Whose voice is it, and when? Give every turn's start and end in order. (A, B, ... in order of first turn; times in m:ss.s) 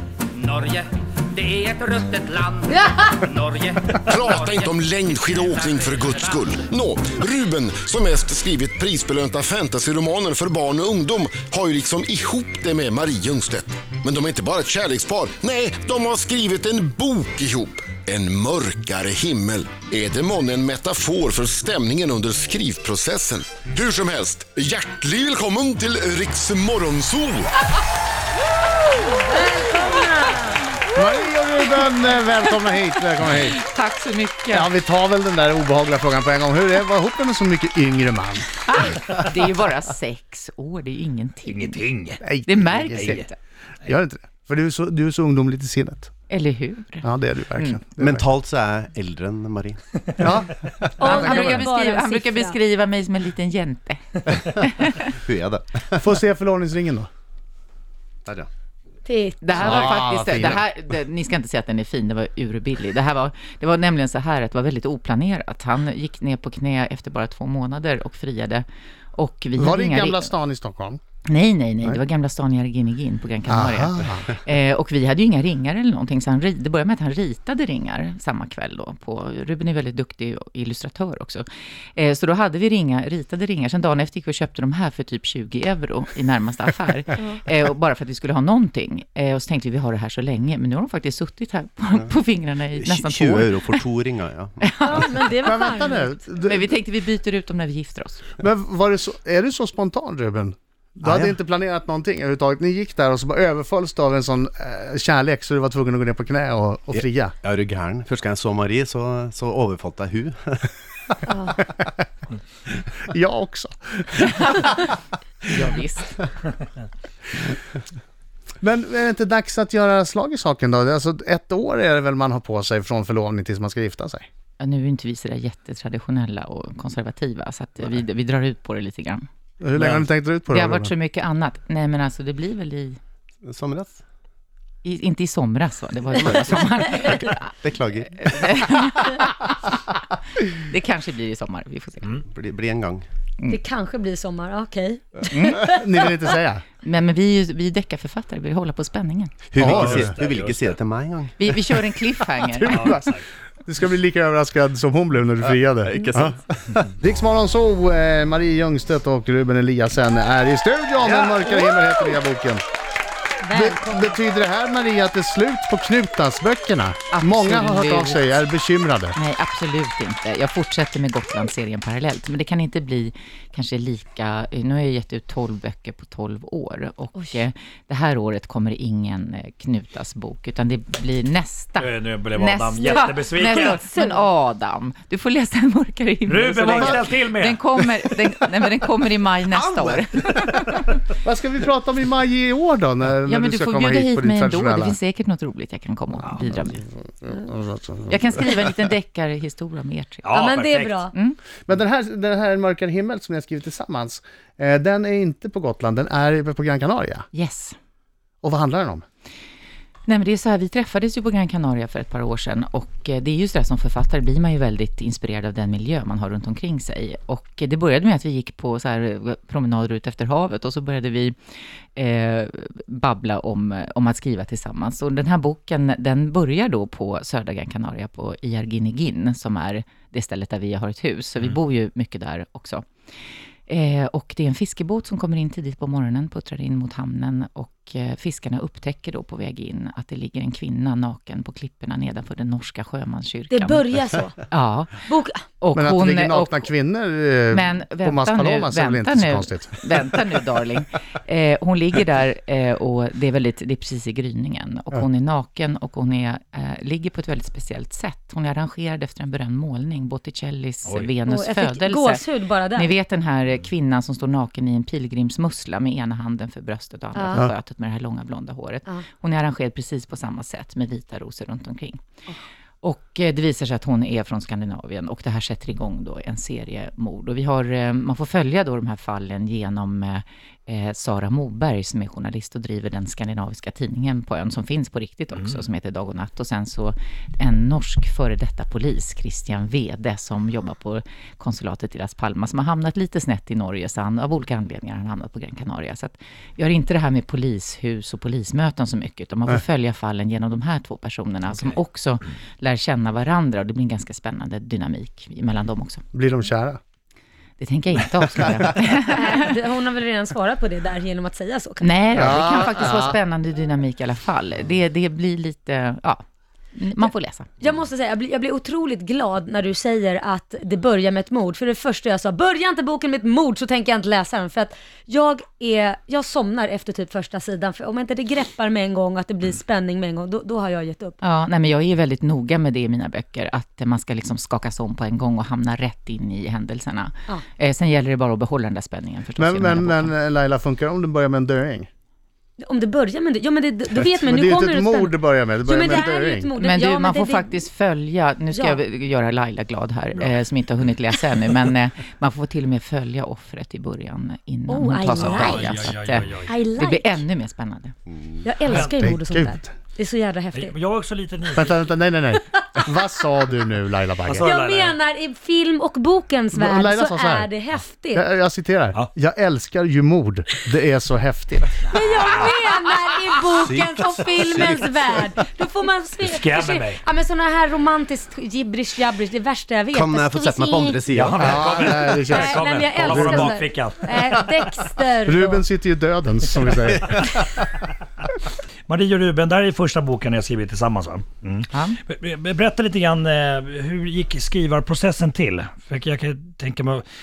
0:00.4-0:06.4 A
0:04.0-0:27.5 B
0:29.0-0:30.6 C
0:30.9-0:33.6 D
0:33.3-0:34.7 E
0:34.5-0:38.5 D
0:38.7-0:41.8 E
0:41.4-0:42.2 F
0:42.2-0:43.2 D
0:42.4-0:43.4 E
0:42.9-0:43.2 F
0:43.8-0:46.1 D
0:46.3-0:47.8 E
0:47.0-0:48.3 D
0:48.0-0:49.8 G
0:50.2-0:51.2 D
0:51.0-0:52.6 C
0:51.0-0:55.1 E
0:55.1-0:56.0 G
0:56.0-0:57.1 D
0:59.0-0:59.7 C
0:59.4-1:10.3 E
0:59.6-1:00.6 D
1:09.6-1:11.0 D
1:11.2-1:33.8 E
1:13.5-1:14.2 D
1:32.7-1:34.7 G
1:34.6-1:35.1 E
1:34.8-1:36.1 C
1:35.4-1:36.7 D
1:36.4-1:38.2 E
1:38.4-1:47.3 D
1:41.0-1:41.4 G
1:46.9-1:50.7 G
1:51.3-1:51.6 C
1:53.1-1:54.7 D
1:54.5-1:54.8 E
1:55.4-1:56.2 E
1:58.6-2:04.3 D
2:04.6-2:09.2 E
2:09.6-2:10.9 D
2:10.5-2:13.0 E
2:13.4-2:14.0 G
2:14.8-2:17.6 E
2:17.1-2:18.5 G
2:18.1-2:19.7 E
2:20.4-2:22.2 E
2:22.2-2:23.0 G
2:23.5-2:25.8 C
2:25.3-2:25.6 E
2:25.7-2:26.6 D
2:26.8-2:29.4 E
2:29.5-2:31.7 G
2:29.6-2:30.8 F
2:29.6-2:30.1 D
2:31.4-2:33.0 E
2:32.4-2:36.4 D
2:32.7-2:33.2 F
2:35.4-2:36.8 G
2:37.0-2:42.6 D
2:41.0-2:41.4 F
2:43.4-2:44.1 C
2:43.5-2:49.2 D
2:47.1-2:48.4 E
2:49.1-3:11.0 E
3:01.8-3:03.8 F
3:03.6-3:04.2 C
3:06.3-3:07.9 F
3:09.5-3:10.2 G
3:11.2-3:15.0 D
3:13.2-3:16.8 E
3:16.6-3:18.6 D
3:18.1-3:20.3 E
3:20.2-3:21.0 F
3:20.3-3:21.1 C
3:21.1-3:21.4 E
3:21.7-3:27.2 D
3:27.3-3:27.7 E
3:28.4-3:29.0 D
3:30.1-3:41.4 E
3:42.0-3:52.8 E
3:53.7-4:03.8 E
4:03.5-4:04.4 C
4:04.4-4:05.0 E
4:05.0-4:05.4 C
4:05.6-4:06.7 E
4:05.7-4:09.7 D
4:07.5-4:22.2 E
4:20.8-4:21.1 F
4:21.3-4:22.9 C
4:22.7-4:32.0 E
4:27.2-4:27.4 C
4:32.8-5:06.0 E
5:06.1-5:06.8 D
5:07.6-5:09.6 E
5:09.1-5:12.2 C
5:11.8-5:16.2 E
5:12.1-5:13.2 D
5:16.7-5:17.5 E
5:17.6-5:31.2 C
5:31.2-5:40.1 E
5:39.4-5:41.9 D
5:42.6-5:47.6 C
5:44.1-5:46.5 D
5:46.6-5:57.9 E
5:48.5-5:48.8 C
5:54.7-5:57.2 C
5:55.1-5:56.5 F
5:58.1-5:58.4 G
5:58.4-6:00.7 C
5:58.7-5:59.1 F
5:58.8-5:59.7 D
6:00.5-6:01.8 F
6:01.5-6:04.5 D
6:04.3-6:05.0 F
6:04.4-6:08.2 C
6:06.5-6:07.5 D
6:08.1-6:11.7 D
6:11.8-6:12.7 F
6:11.9-6:21.0 C
6:13.5-6:14.9 G
6:16.2-6:17.0 F
6:19.9-6:21.6 G
6:21.1-6:24.3 F
6:21.3-6:23.5 D
6:21.7-6:25.6 C
6:25.2-6:27.3 D
6:26.8-6:27.2 G
6:28.9-6:37.0 F
6:31.7-6:32.0 E